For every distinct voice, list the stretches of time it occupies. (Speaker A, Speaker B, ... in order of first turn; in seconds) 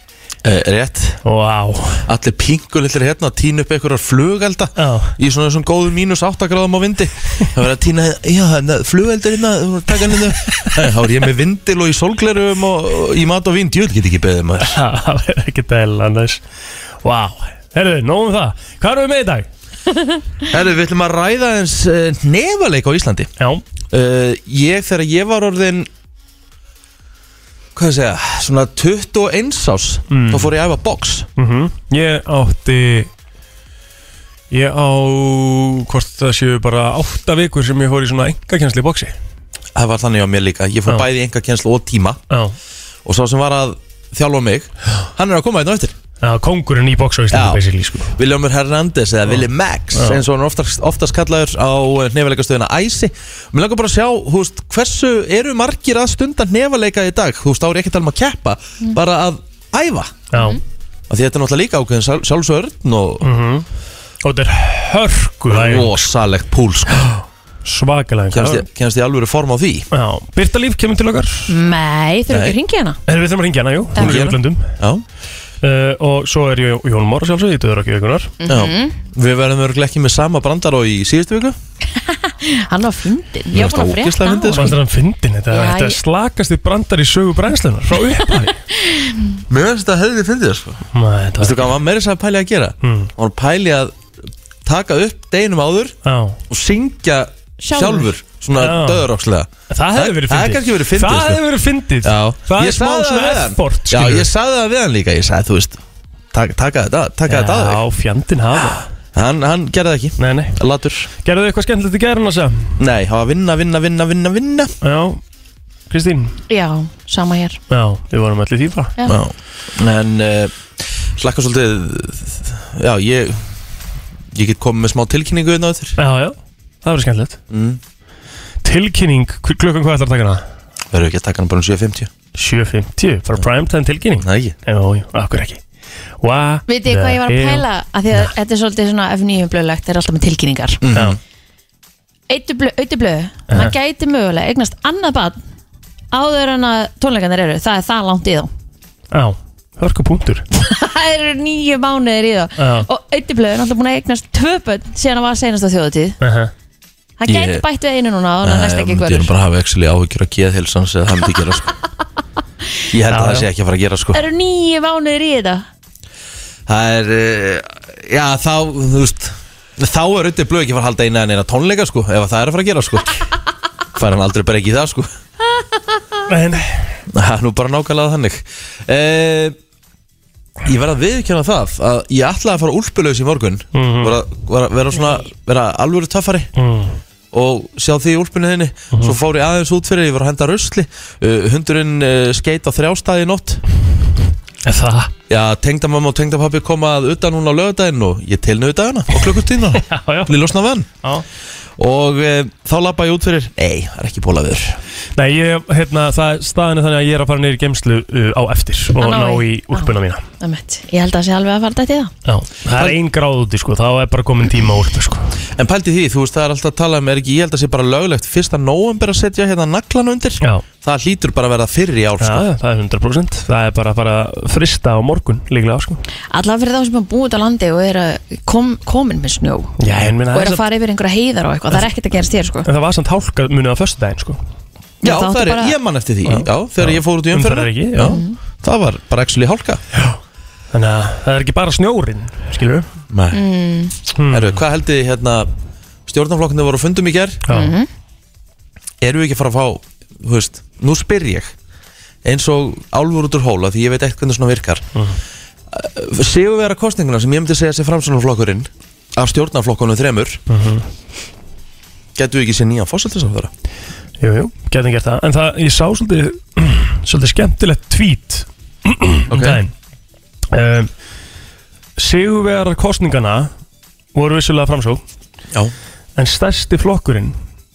Speaker A: 0.4-1.2, 2.1-14.8, 20.5-23.3, 23.9-25.9, 27.7-31.3, 39.7-42.2, 43.0-45.9, 47.3-47.6, 48.1-60.2, 61.1-63.2, 65.5-67.1, 68.3-69.8, 72.3-72.5, 73.9-75.0, 78.5-81.6, 83.5-84.8, 89.5-90.8, 91.4-94.0, 94.6-96.0, 96.5-101.4, 102.0-105.8, 106.3-107.8, 109.1-111.1, 112.8-114.7, 119.0-120.5, 121.2-123.4, 124.3-126.0, 127.5-127.8, 130.9-132.1, 134.2-134.6, 140.8-141.2, 157.3-157.6, 158.4-161.7, 162.9-164.2, 166.7-173.2, 173.9-175.1, 177.1-179.6, 180.6-186.5, 187.3-193.6, 195.3-200.9, 201.8-204.8, 212.7-213.0, 215.6-222.4, 235.0-239.8, 243.1-243.4, 244.3-245.5, 246.1-247.4, 249.0-251.5, 252.2-254.8, 255.7-260.4, 262.1-263.5, 269.3-269.6
Speaker B: 1.2-2.0, 4.8-5.1, 14.6-16.4, 17.0-19.5, 30.1-30.5, 31.4-33.1, 34.5-39.1, 46.2-48.1, 49.9-50.2, 60.3-60.6, 63.2-63.6, 64.2-66.0, 67.6-68.6, 69.9-71.5, 73.1-74.7, 75.6-78.3, 84.5-88.5, 90.9-91.8, 92.8-93.1, 96.0-96.4, 98.5-99.1, 99.7-104.3, 107.3-108.9, 110.2-110.6, 111.2-112.7, 114.8-115.2, 115.9-116.3, 117.7-118.9, 126.0-127.4, 128.6-130.4, 132.3-135.6, 136.2-138.3, 149.1-150.4, 152.6-152.9, 156.2-156.5, 163.1-163.5, 176.3-177.0, 183.7-184.2, 186.6-186.9, 194.6-195.1, 199.2-200.4, 205.2-210.2, 212.2-215.3, 222.2-226.0, 229.8-230.6, 232.6-234.4, 236.2-238.2, 240.7-242.9, 244.1-244.6, 247.5-247.7, 260.5-260.9, 264.2-269.7, 270.5-270.9, 272.0-273.5, 274.1-275.0, 276.1-277.4
Speaker C: 71.5-73.0, 78.4-79.0, 82.0-84.7, 85.5-86.0, 88.8-89.3, 97.6-98.1, 116.5-117.6, 136.7-140.8, 142.3-145.4, 146.1-148.5, 150.6-156.2, 157.2-159.3, 164.1-165.7, 209.0-212.1, 226.3-229.8, 230.3-232.7, 235.0-235.8, 238.0-238.3, 243.3-243.9, 247.5-247.9